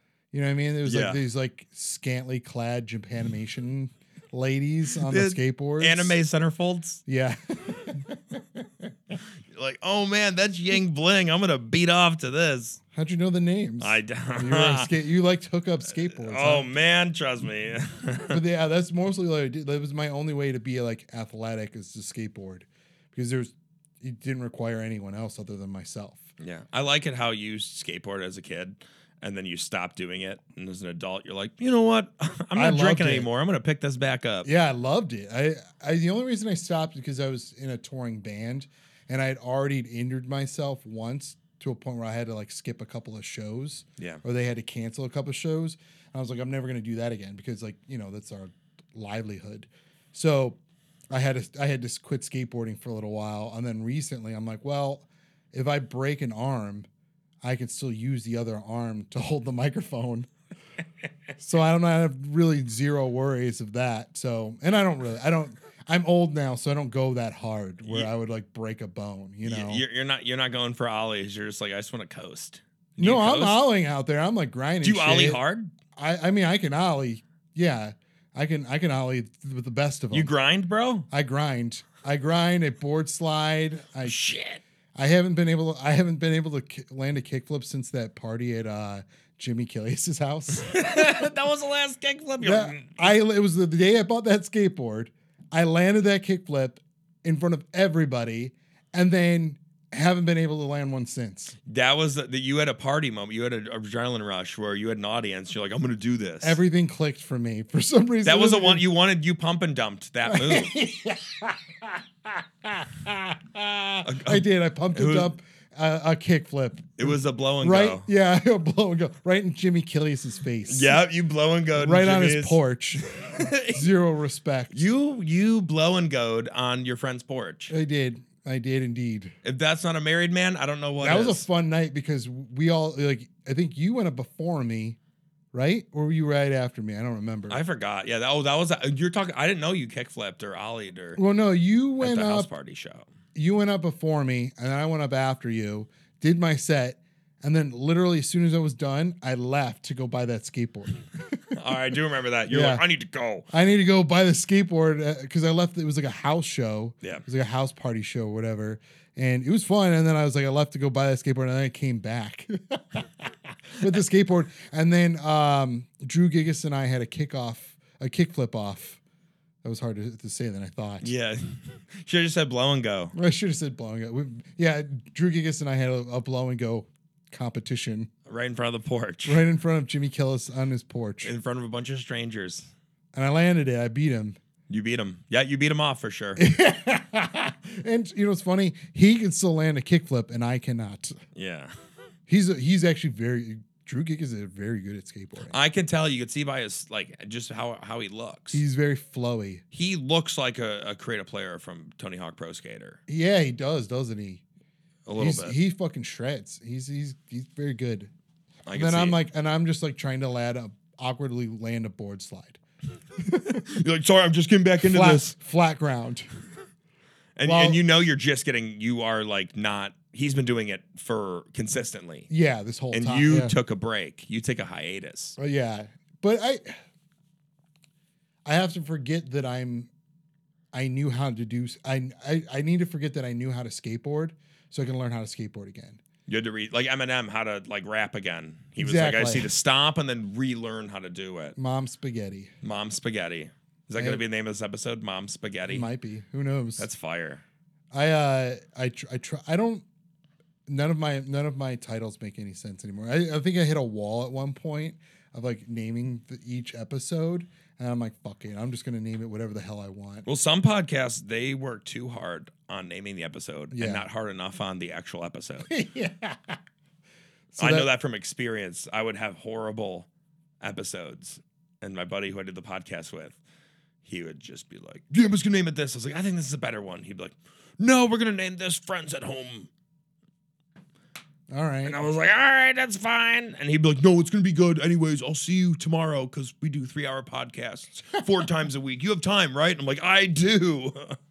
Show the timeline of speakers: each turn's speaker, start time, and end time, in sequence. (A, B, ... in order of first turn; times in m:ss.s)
0:00.3-0:06.2 A
0:00.8-0:01.2 B
0:05.0-0:07.0 B
0:07.0-0:08.9 A
0:09.5-0:12.8 B
0:12.9-0:16.7 A
0:13.8-0:14.9 B
0:16.1-0:18.4 B
0:18.3-0:26.2 A
0:26.4-0:34.5 B
0:32.5-0:33.3 A
0:34.4-0:50.6 A
0:51.1-0:56.9 A
0:57.4-1:00.3 A
1:01.4-1:09.8 A
1:07.8-1:08.1 B
1:09.4-1:13.6 B
1:13.0-1:15.4 A
1:14.8-1:15.7 B
1:15.9-1:20.3 A
1:20.1-1:21.1 B
1:21.1-1:24.2 A
1:24.0-1:24.6 B
1:24.9-1:31.1 A
1:30.5-1:33.1 B
1:32.4-1:41.6 A
1:41.7-1:46.6 B
1:46.4-1:48.8 A
1:48.2-1:50.7 B
1:50.2-2:01.0 A
1:54.0-1:55.3 B
1:57.0-1:58.1 B
2:00.7-2:03.8 B
2:01.7-2:04.8 A
2:04.7-2:07.7 B
2:07.7-2:09.3 A
2:09.4-2:11.4 B
2:11.0-2:15.0 A
2:15.5-2:17.6 A
2:17.5-2:21.2 B
2:21.2-2:22.5 A
2:22.0-2:23.1 B
2:23.3-2:31.2 A
2:31.5-2:33.5 B
2:32.5-2:32.8 A
2:33.5-2:49.0 A
2:49.6-2:51.1 A
2:51.0-2:53.1 B
2:53.1-2:58.1 A
2:58.3-2:59.4 B
2:59.2-3:01.3 A
3:01.2-3:02.7 B
3:03.1-3:04.4 A
3:04.7-3:06.4 B
3:06.4-3:11.1 A
3:11.3-3:11.7 B
3:12.3-3:15.5 A
3:15.5-3:18.6 B
3:18.5-3:19.6 A
3:19.7-3:23.0 B
3:23.1-3:24.4 A
3:25.0-3:25.6 B
3:25.2-3:28.1 A
3:28.6-3:29.2 B
3:28.7-3:32.6 A
3:33.2-3:33.6 A
3:33.4-3:35.3 B
3:34.8-3:36.3 A
3:37.4-3:42.3 B
3:37.4-3:37.8 A
3:42.3-3:43.6 A
3:42.9-3:45.4 B
3:45.4-3:46.8 A
3:48.4-3:49.9 A
3:50.7-3:56.0 A
3:56.3-4:01.5 B
3:58.8-3:59.5 A
4:01.6-4:02.5 A
4:02.6-4:05.9 B
4:04.0-4:04.2 A
4:05.7-4:06.9 A
4:06.8-4:07.4 B
4:07.9-4:09.8 A
4:10.7-4:20.2 A
4:20.2-4:25.7 B
4:23.7-4:24.1 A
4:25.7-4:26.6 A
4:27.5-4:27.9 A
4:27.6-4:30.1 B
4:30.6-4:33.4 B
4:34.0-4:39.7 B
4:41.5-4:42.0 A
4:41.8-4:51.2 B